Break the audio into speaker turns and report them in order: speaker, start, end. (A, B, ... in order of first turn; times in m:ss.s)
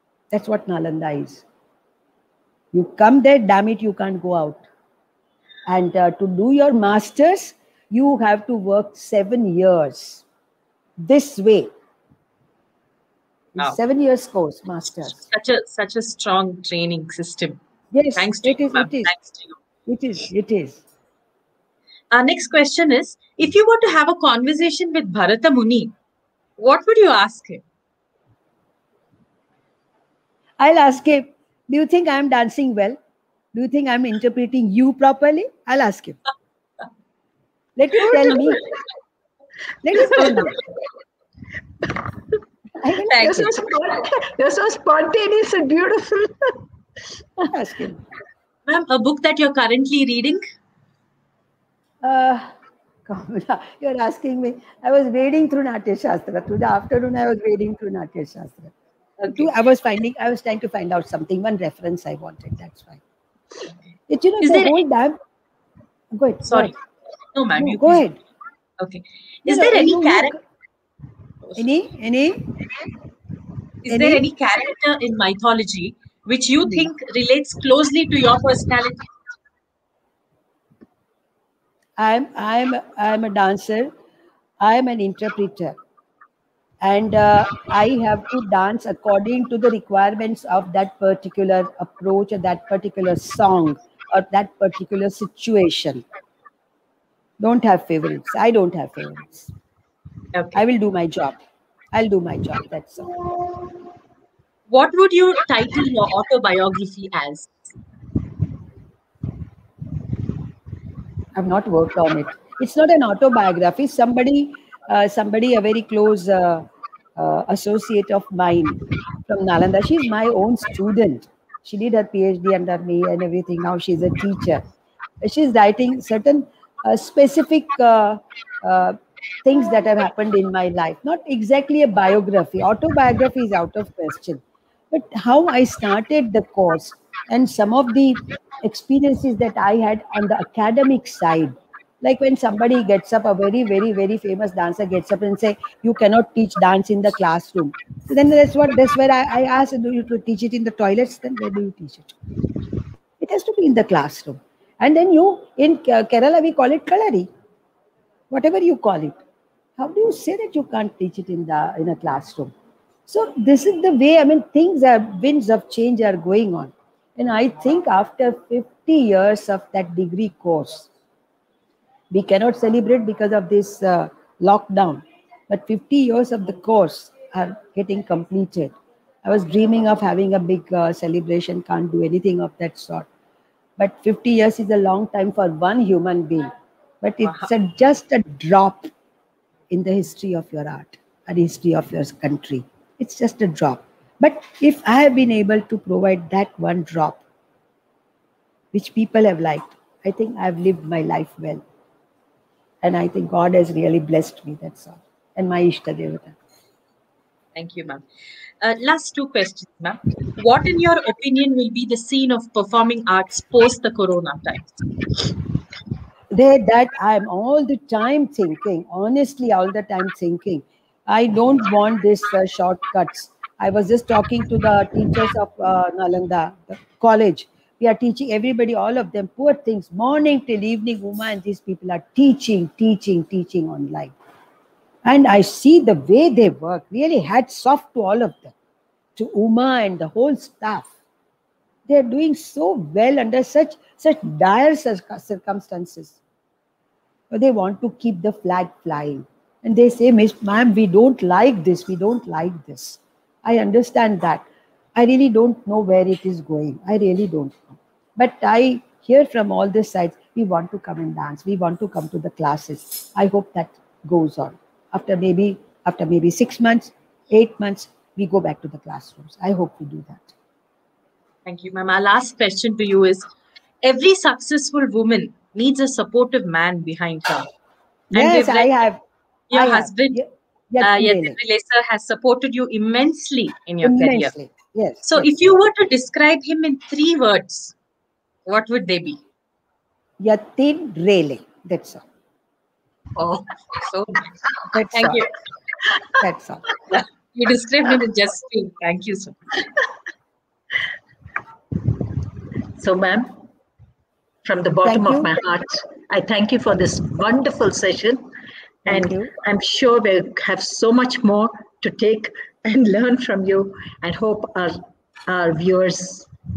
0:00.3-0:01.4 A
0:02.7-0:04.6 A
0:05.7-0:10.2 A
0:11.0-0:11.7 A
0:13.6-0:15.2 A
0:15.0-0:17.6 B
0:17.9-0:19.1 A
0:18.2-0:19.6 B
0:19.9-0:20.8 A
0:22.1-0:25.9 B
0:26.6-0:27.6 B
0:30.6-0:33.0 A
0:33.5-0:36.2 A
0:37.8-0:38.7 A
0:39.8-0:40.6 A
0:42.8-0:43.5 A
0:43.1-0:43.4 B
0:43.2-0:46.6 C
0:47.5-0:48.0 A
0:48.7-0:50.4 B
0:52.0-0:52.5 A
0:53.1-0:58.7 A
0:59.2-0:59.5 B
0:59.3-1:03.0 A
1:04.1-1:05.2 A
1:04.4-1:04.8 B
1:06.1-1:06.7 A
1:06.4-1:06.8 B
1:07.3-1:08.0 B
1:07.6-1:08.2 A
1:08.8-1:10.4 B
1:09.5-1:10.4 A
1:11.6-1:12.5 A
1:13.8-1:19.0 B
1:13.9-1:14.2 A
1:22.0-1:23.9 A
1:24.6-1:25.8 A
1:26.8-1:36.0 A
1:37.4-1:39.5 A
1:40.5-1:41.4 A
1:41.9-1:43.2 A
1:44.7-1:47.6 B
1:51.4-2:04.6 A
2:05.2-2:32.2 A
2:33.2-2:37.3 A
2:38.3-2:39.2 A
2:39.8-2:42.5 A
2:43.1-2:50.9 A
2:52.1-2:58.7 A
2:59.2-3:03.1 A
3:03.8-3:08.9 A
3:09.7-3:17.2 A
3:18.7-3:21.6 A
3:22.8-3:26.4 A
3:27.6-3:28.0 B
3:28.6-3:34.8 B
3:36.3-3:54.1 A
3:55.1-3:58.5 A
3:59.2-4:00.9 A
4:01.9-4:06.2 A
4:07.3-4:30.3 A
4:31.5-4:33.3 B
4:33.8-4:37.5 B
4:38.1-4:38.7 B
4:38.1-4:39.0 A
4:39.5-4:40.2 B
4:39.5-4:41.4 A
4:40.8-4:44.3 B
4:43.8-4:45.3 A
4:45.0-4:47.8 B
4:48.5-4:49.2 B
4:50.2-4:52.0 A
4:53.2-4:54.4 B
4:54.7-4:55.2 A
4:54.9-4:55.3 B
4:56.2-4:56.6 A
4:57.3-4:59.4 B
5:02.7-5:03.4 C
5:04.4-5:08.3 C
5:04.8-5:05.3 A
5:08.9-5:09.3 A
5:08.9-5:16.3 C